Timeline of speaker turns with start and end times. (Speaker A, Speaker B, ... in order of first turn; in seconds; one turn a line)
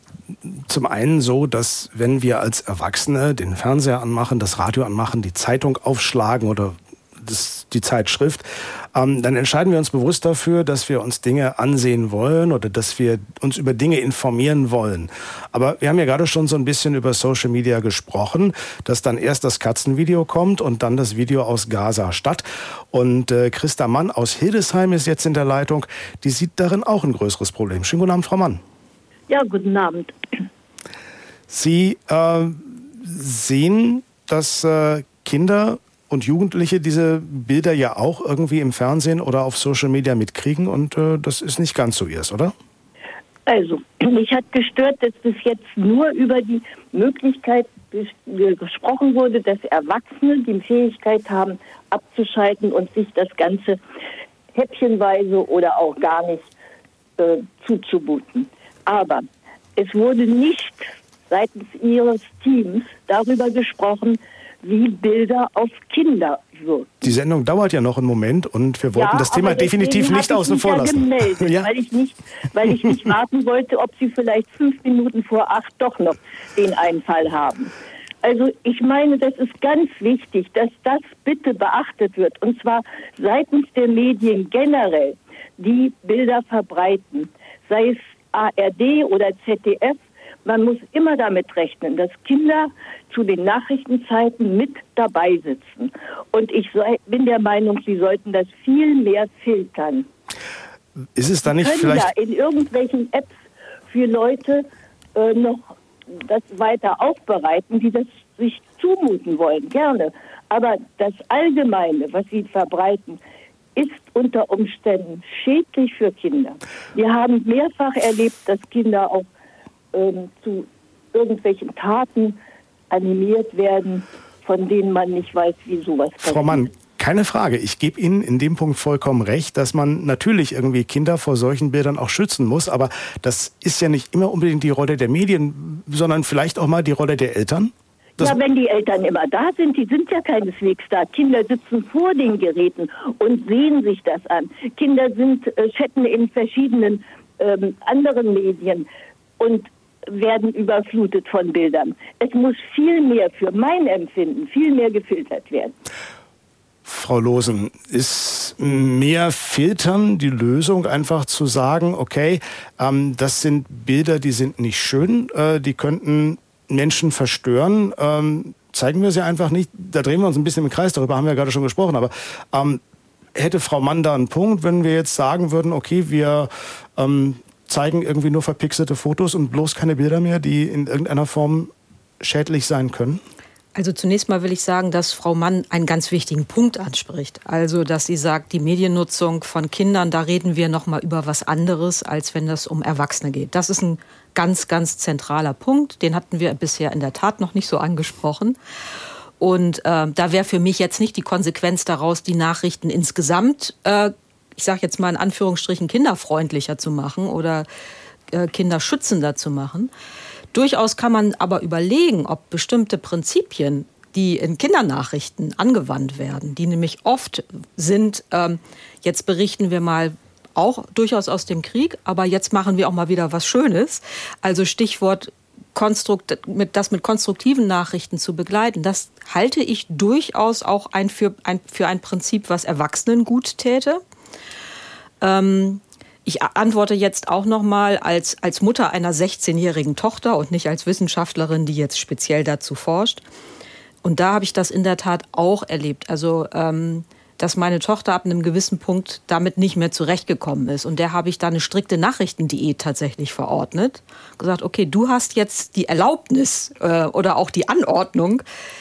Speaker A: 0.4-28.6
Speaker B: 29.3-30.1
Speaker A: 31.5-42.5
Speaker B: 43.5-53.8
Speaker B: 54.5-56.5
Speaker B: 57.2-59.3
Speaker B: 59.8-67.0
Speaker A: 67.0-71.7
Speaker B: 68.9-77.7
Speaker B: 78.2-100.1
Speaker A: 101.2-102.1
Speaker B: 101.5-103.3
Speaker B: 103.9-104.7
Speaker B: 105.2-113.2
Speaker B: 113.8-119.3
Speaker B: 119.9-122.4
Speaker B: 122.9-126.7
Speaker A: 126.2-138.4
Speaker B: 138.2-148.9
Speaker B: 149.4-155.8
Speaker A: 156.8-172.8
Speaker A: 173.3-183.2
Speaker C: 183.8-198.6
Speaker C: 199.4-207.7
Speaker C: 208.3-209.9
Speaker C: 210.5-234.0
Speaker C: 235.2-243.2
Speaker C: 244.0-258.4